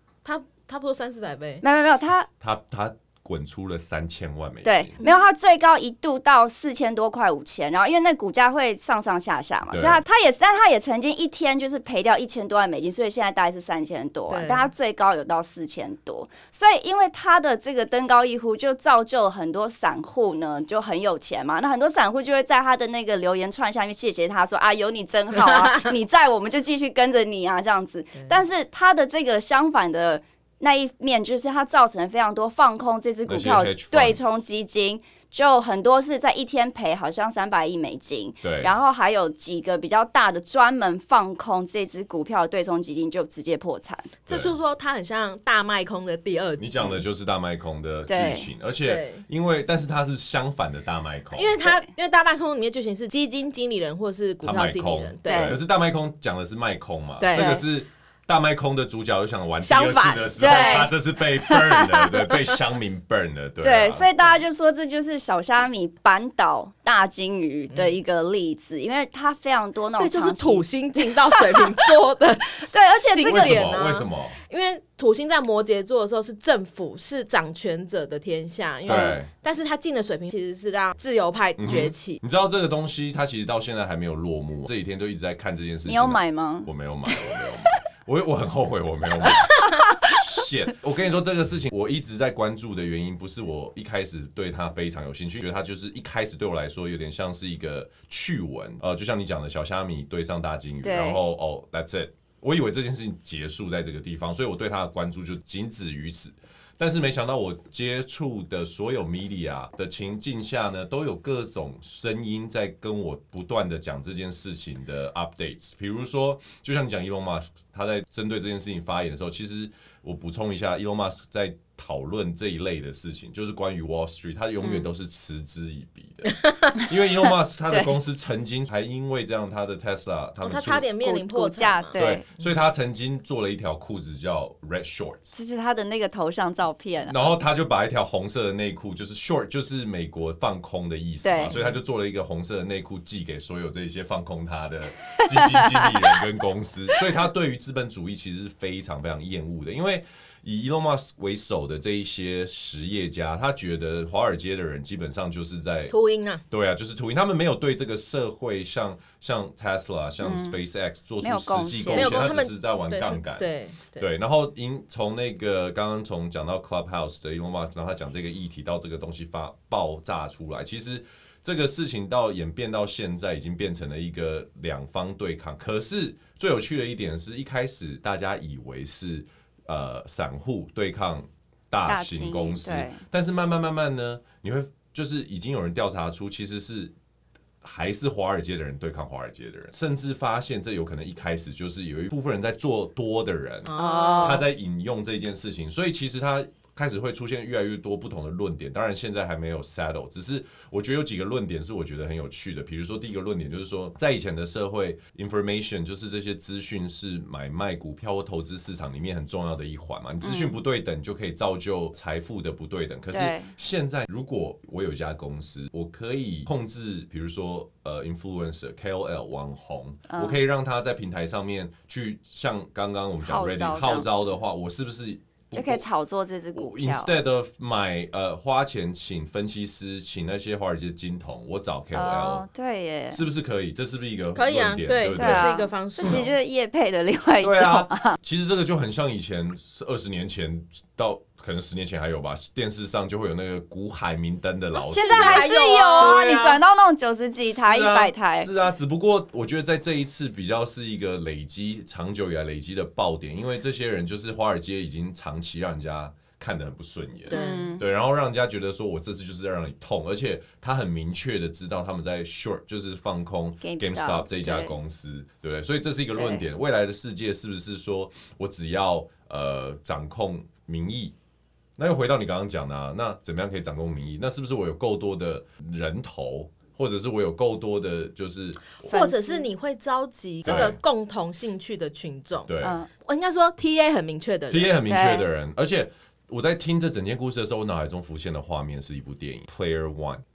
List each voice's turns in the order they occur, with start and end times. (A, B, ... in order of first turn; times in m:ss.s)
0:00.2-0:01.6 A
0:01.6-0:02.3 B
0:02.0-0:05.0 C
0:04.6-0:44.1 B
0:05.0-0:05.3 A
0:09.7-0:10.0 C
0:14.3-0:14.7 A
0:25.5-0:25.9 A
0:33.3-0:34.3 C
0:38.4-0:38.7 C
0:44.3-0:47.0 A
0:44.3-0:44.6 C
0:46.6-0:51.6 C
0:48.1-0:48.5 B
0:48.9-0:49.2 A
0:51.3-0:55.6 A
0:51.6-0:51.9 B
0:54.4-1:04.1 C
0:55.2-0:55.6 B
0:57.2-0:57.6 A
0:57.3-0:57.6 B
0:59.6-1:00.9 A
1:00.4-1:02.2 B
1:03.6-1:11.9 B
1:10.0-1:22.2 A
1:12.6-1:13.7 B
1:13.3-1:14.4 C
1:18.9-1:19.3 C
1:18.9-1:19.2 B
1:21.6-2:10.9 C
1:25.9-1:27.8 B
1:29.5-1:30.2 B
1:40.8-1:41.2 B
2:04.6-2:04.9 B
2:06.3-2:06.8 A
2:10.4-2:12.5 A
2:11.0-2:12.2 B
2:12.0-2:15.4 C
2:15.3-2:17.2 B
2:17.1-2:35.9 C
2:21.2-2:21.6 B
2:21.5-2:21.8 A
2:25.2-2:25.9 B
2:35.9-2:36.4 A
2:36.5-3:06.9 C
2:40.2-2:40.6 B
2:41.2-2:42.2 B
2:41.9-2:44.0 A
3:01.8-3:03.0 B
3:07.6-3:45.8 C
3:13.7-3:14.5 A
3:13.8-3:14.5 B
3:30.2-3:30.6 B
3:33.1-3:33.5 B
3:40.1-3:40.4 B
3:43.2-3:44.2 B
3:45.5-3:47.2 B
3:46.5-3:52.5 C
3:51.9-3:53.2 B
3:53.1-3:55.5 C
3:54.3-3:56.3 A
3:55.2-3:58.2 B
3:56.0-3:56.3 C
3:57.4-4:06.6 C
4:04.9-4:06.2 A
4:04.9-4:08.5 B
4:07.5-4:31.2 C
4:17.3-4:17.8 A
4:17.3-4:17.9 B
4:23.6-4:24.8 B
4:26.2-4:26.4 B
4:31.8-4:38.7 C
4:38.8-4:39.5 B
4:38.8-4:44.7 A
4:40.4-4:40.8 C
4:40.5-4:40.7 B
4:42.5-4:42.8 C
4:42.6-4:42.9 B
4:44.5-4:50.2 C
4:44.9-4:45.2 B